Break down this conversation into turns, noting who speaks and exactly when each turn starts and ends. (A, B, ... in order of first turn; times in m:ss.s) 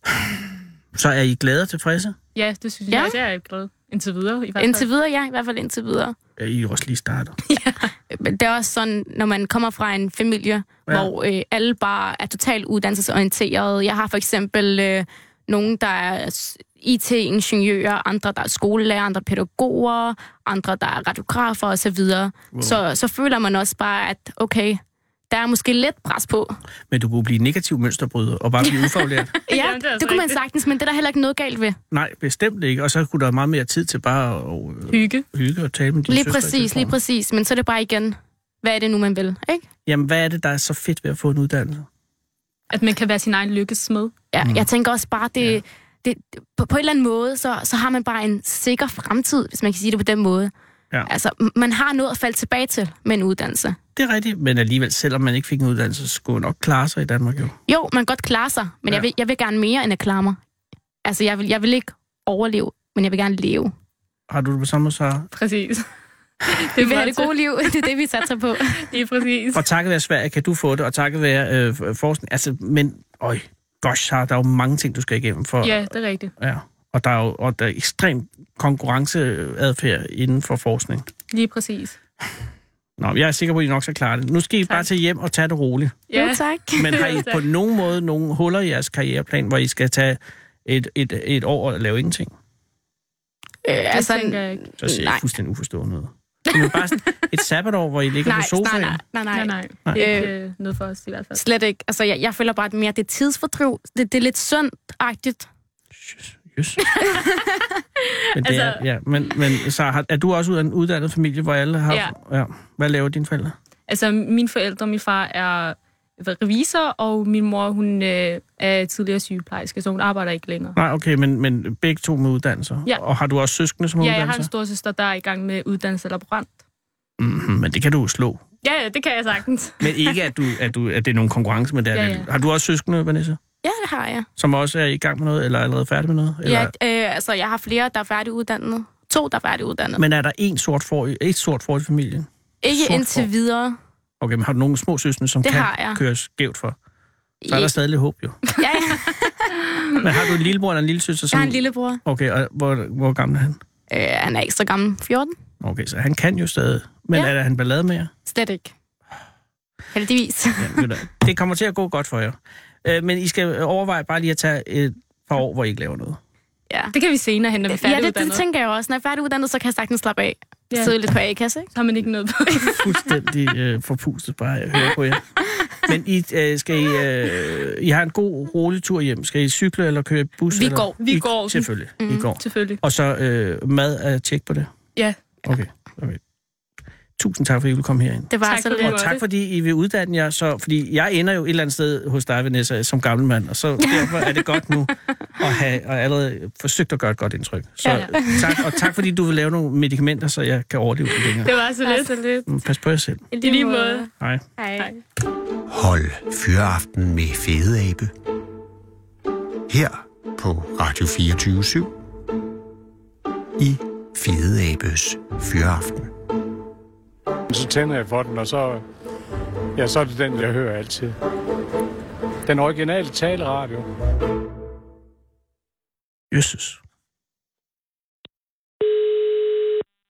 0:00.9-0:02.1 A
0:02.3-0:04.8 B
0:02.9-0:03.2 C
0:04.6-0:06.2 C
0:06.4-0:07.4 A
0:07.5-0:07.9 B
0:08.1-0:26.6 C
0:22.5-0:22.8 A
0:26.9-0:29.3 A
0:29.4-0:30.4 B
0:29.5-0:31.8 C
0:31.9-0:37.0 A
0:34.9-0:35.2 B
0:36.1-0:39.6 C
0:39.8-0:41.9 A
0:42.7-0:44.1 B
0:44.3-0:50.5 C
0:51.0-0:53.8 C
0:54.0-0:57.6 A
0:57.7-1:00.4 C
1:01.0-1:03.7 C
1:04.3-1:05.3 A
1:05.3-1:05.8 B
1:06.5-1:07.3 B
1:06.8-1:08.9 C
1:08.8-1:09.6 B
1:09.5-1:21.1 A
1:15.6-1:16.3 B
1:21.3-1:22.0 B
1:23.0-1:26.0 A
1:26.1-1:27.4 B
1:26.1-1:27.1 C
1:26.8-1:32.3 A
1:33.6-1:35.2 C
1:33.9-1:34.6 B
1:34.8-1:39.0 A
1:38.2-1:40.3 C
1:39.3-1:41.4 B
1:41.3-1:45.5 C
1:45.9-1:46.8 A
1:47.0-1:47.4 C
1:48.3-1:53.5 A
1:48.4-1:48.8 B
1:53.9-2:00.8 B
2:00.8-2:04.5 A
2:04.0-2:06.6 B
2:07.2-2:08.4 A
2:08.6-2:10.2 B
2:09.8-2:13.4 A
2:11.9-2:12.3 B
2:13.6-2:14.3 C
2:14.4-2:16.7 A
2:16.4-2:20.0 C
2:20.0-2:23.3 A
2:22.6-2:23.8 C
2:24.2-2:26.8 A
2:25.4-2:26.0 C
2:27.4-2:27.7 C
2:27.5-2:28.4 A
2:28.6-2:29.5 C
2:30.0-2:33.6 A
2:31.3-2:32.0 C
2:33.9-2:35.3 C
2:35.6-2:38.1 A
2:38.2-2:38.7 C
2:39.9-2:40.9 C
2:40.6-2:46.2 A
2:46.9-2:48.4 B
2:47.7-2:51.7 C
2:51.7-2:52.8 B
2:52.8-2:55.2 A
2:55.8-3:04.7 A
3:00.5-3:00.9 C
3:01.0-3:01.7 B
3:02.0-3:02.3 C
3:02.4-3:02.8 B
3:05.4-3:06.2 A
3:07.2-3:21.5 A
3:08.3-3:09.0 C
3:08.4-3:09.2 B
3:17.8-3:18.5 C
3:21.4-3:22.4 B
3:21.8-3:22.2 C
3:22.5-3:23.3 A
3:23.3-3:24.9 C
3:23.4-3:24.0 B
3:25.7-3:28.1 D
3:29.7-3:31.9 D
3:33.6-3:36.1 D
3:37.5-3:38.8 E
3:39.8-3:41.1 E
3:42.5-3:43.8 E
3:46.3-3:46.8 A